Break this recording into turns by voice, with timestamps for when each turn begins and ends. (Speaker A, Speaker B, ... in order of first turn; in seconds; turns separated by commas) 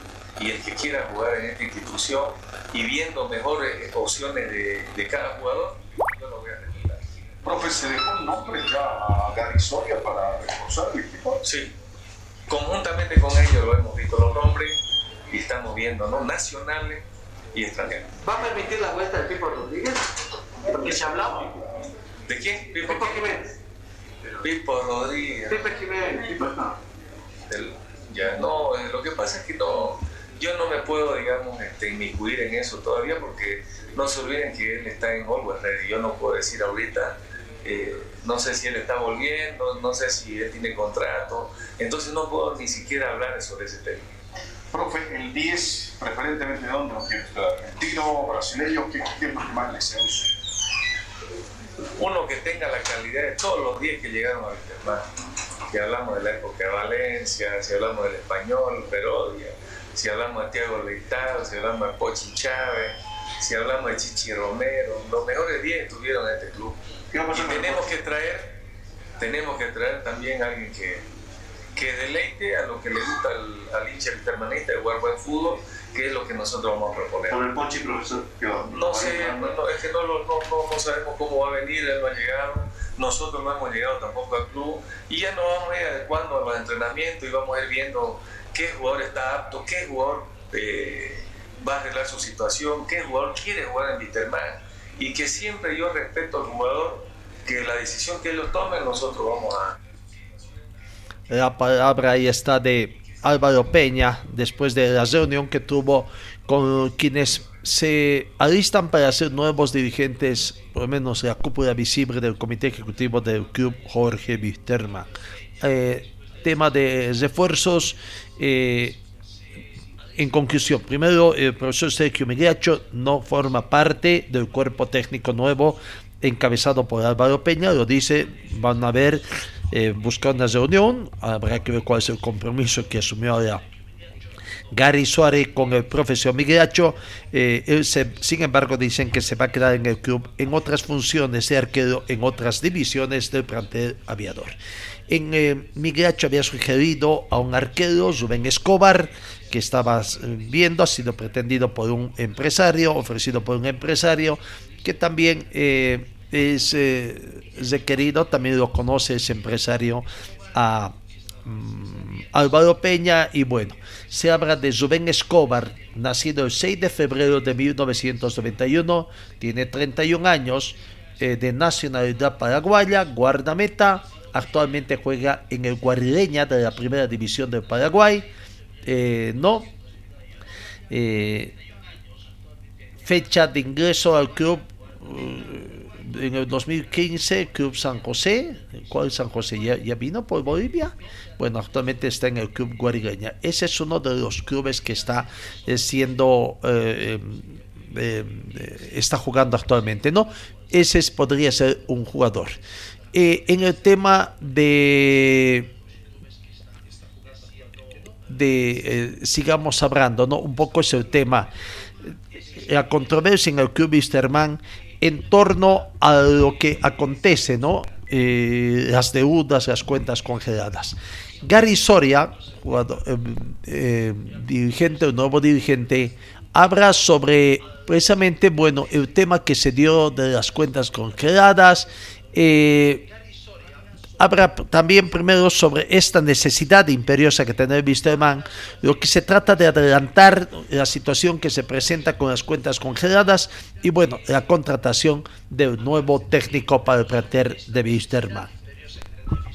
Speaker A: 0.4-7.0, Speaker B: 7.4-11.4, Speaker A: 11.4-11.7, Speaker A: 12.5-14.8, Speaker A: 15.3-17.0, Speaker A: 17.5-18.1, Speaker C: 18.2-20.1, Speaker C: 20.7-21.6, Speaker A: 22.3-23.3, Speaker C: 22.8-23.5, Speaker A: 24.4-25.7, Speaker C: 25.5-26.7, Speaker A: 27.5-44.1, Speaker B: 44.7-50.3, Speaker A: 52.0-55.0, Speaker A: 55.7-66.8, Speaker A: 67.3-68.6, Speaker A: 69.2-71.0, Speaker A: 71.8-77.3, Speaker D: 77.3-79.4, Speaker A: 78.7-99.8, Speaker E: 101.3-119.0, Speaker E: 120.2-133.6, Speaker E: 134.7-144.6, Speaker E: 145.1-160.9, Speaker E: 161.4-178.3, Speaker E: 178.8-179.7, Speaker E: 180.9-181.6, Speaker E: 183.0-202.6, Speaker E: 203.1-205.7, Speaker E: 208.3-211.5, Speaker E: 212.6-233.1, Speaker E: 234.2-248.5